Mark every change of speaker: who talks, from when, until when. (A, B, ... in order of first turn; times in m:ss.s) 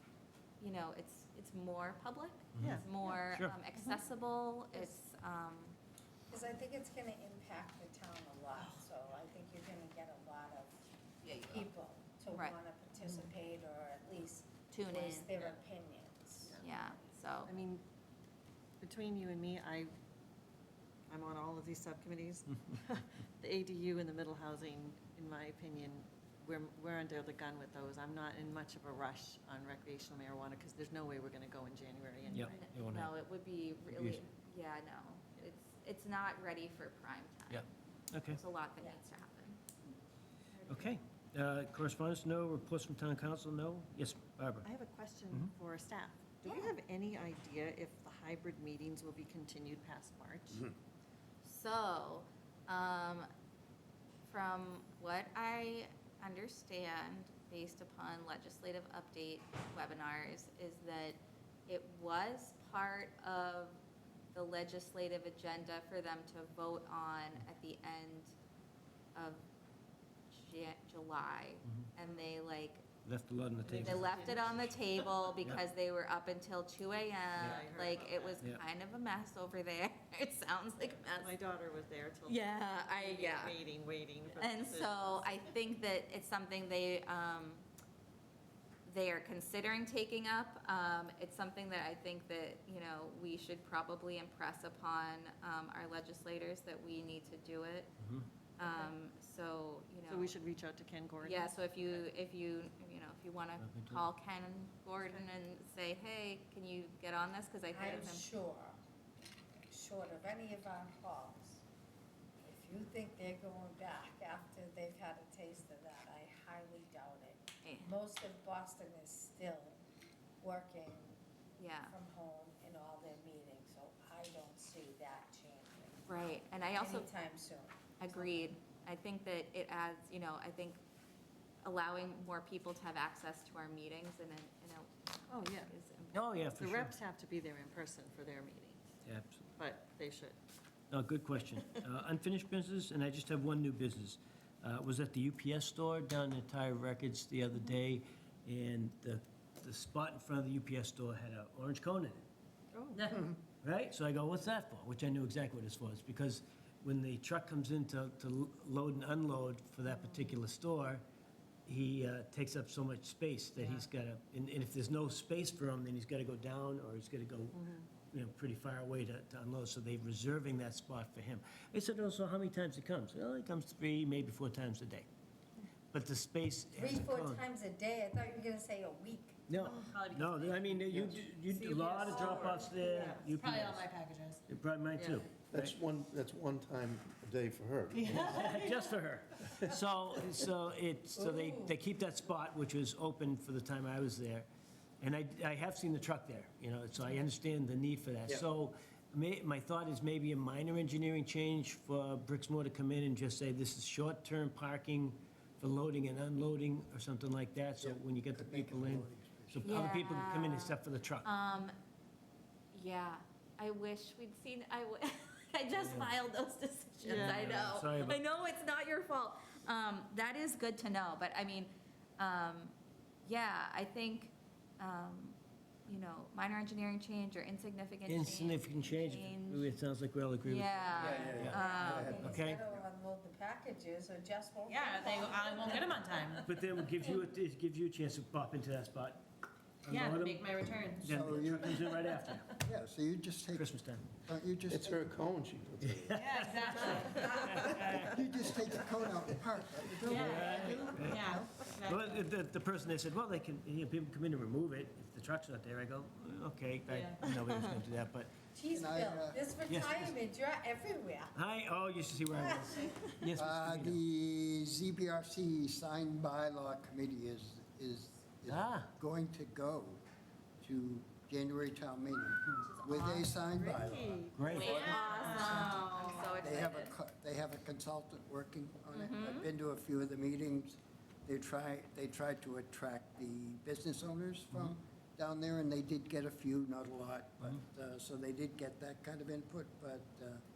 0:00.6-0:05.8 A
0:02.5-0:03.5 B
0:02.6-0:03.1 C
0:06.3-0:10.8 D
0:11.2-0:11.7 A
0:11.4-0:16.9 D
0:12.3-0:12.6 A
0:13.0-0:13.3 C
0:14.7-0:15.3 A
0:16.6-0:17.5 A
0:17.4-0:17.8 C
0:18.8-0:19.9 C
0:21.1-0:32.6 C
0:32.3-0:33.1 B
0:32.3-0:37.7 A
0:33.9-0:34.2 B
0:37.5-0:38.4 B
0:38.3-0:39.6 A
0:40.5-0:40.9 C
0:40.7-0:44.7 B
0:44.6-0:50.7 C
0:51.4-0:53.3 A
0:54.3-1:03.8 A
1:04.3-1:08.3 A
1:09.1-1:09.5 A
1:10.3-1:12.8 A
1:13.0-1:14.2 B
1:13.6-1:15.1 C
1:13.8-1:21.3 A
1:17.4-1:18.4 C
1:20.9-1:25.5 C
1:22.2-1:23.6 A
1:24.4-1:27.6 A
1:28.8-1:37.9 A
1:38.6-1:40.3 A
1:38.6-1:38.9 D
1:40.1-1:42.0 C
1:41.2-1:48.3 A
1:43.6-1:44.0 B
1:47.7-1:48.8 D
1:47.8-1:48.1 C
1:49.7-1:51.6 D
1:52.4-1:59.8 D
1:57.6-1:57.9 A
2:00.4-2:01.2 D
2:01.6-2:01.9 A
2:01.8-2:06.1 D
2:06.1-2:07.1 A
2:06.7-2:08.5 D
2:08.0-2:10.8 A
2:11.6-2:16.2 A
2:15.3-2:15.7 C
2:16.1-2:16.9 B
2:16.6-2:18.8 C
2:19.0-2:19.5 B
2:19.6-2:20.4 C
2:20.9-2:32.2 B
2:32.7-2:33.1 C
2:32.9-2:33.3 E
2:33.6-2:41.0 B
2:39.9-2:40.4 C
2:41.6-2:55.0 B
2:43.6-2:43.8 E
2:47.5-2:47.9 C
2:55.9-2:57.4 B
2:56.7-2:59.4 D
2:59.5-3:03.9 B
2:59.7-3:04.4 E
3:00.9-3:01.3 F
3:02.1-3:03.4 C
3:04.5-3:05.8 B
3:05.0-3:05.2 C
3:05.5-3:08.5 F
3:07.9-3:14.5 B
3:08.3-3:08.8 E
3:09.5-3:09.8 F
3:11.2-3:11.6 D
3:15.0-3:31.3 B
3:27.8-3:29.8 G
3:29.6-3:31.8 A
3:32.7-3:49.8 A
3:35.8-3:36.1 B
3:37.0-3:37.5 C
3:37.1-3:38.2 B
3:48.1-3:51.6 B
3:50.4-3:52.4 A
3:50.9-3:52.4 F
3:51.0-3:56.0 D
3:52.2-3:52.6 B
3:54.6-3:56.6 E
3:56.4-3:59.2 B
3:59.8-4:02.5 B
3:59.8-4:01.2 E
4:01.0-4:03.7 G
4:03.5-4:04.0 B
4:04.2-4:05.2 G
4:04.7-4:07.2 F
4:05.8-4:08.2 B
4:06.1-4:08.0 E
4:07.6-4:11.5 G
4:10.0-4:12.2 E
4:10.2-4:18.4 B
4:16.9-4:17.2 E
4:18.5-4:21.3 D
4:18.7-4:19.4 G
4:19.7-4:20.2 B
4:21.3-4:24.0 B
4:22.3-4:23.2 D
4:23.4-4:30.0 G
4:28.5-4:28.9 B
4:30.6-4:35.9 G
4:32.6-4:33.3 A
4:33.5-4:35.1 C
4:34.3-4:34.8 B
4:34.5-4:36.0 E
4:34.5-4:36.9 A
4:36.4-4:50.4 G
4:38.9-4:39.5 A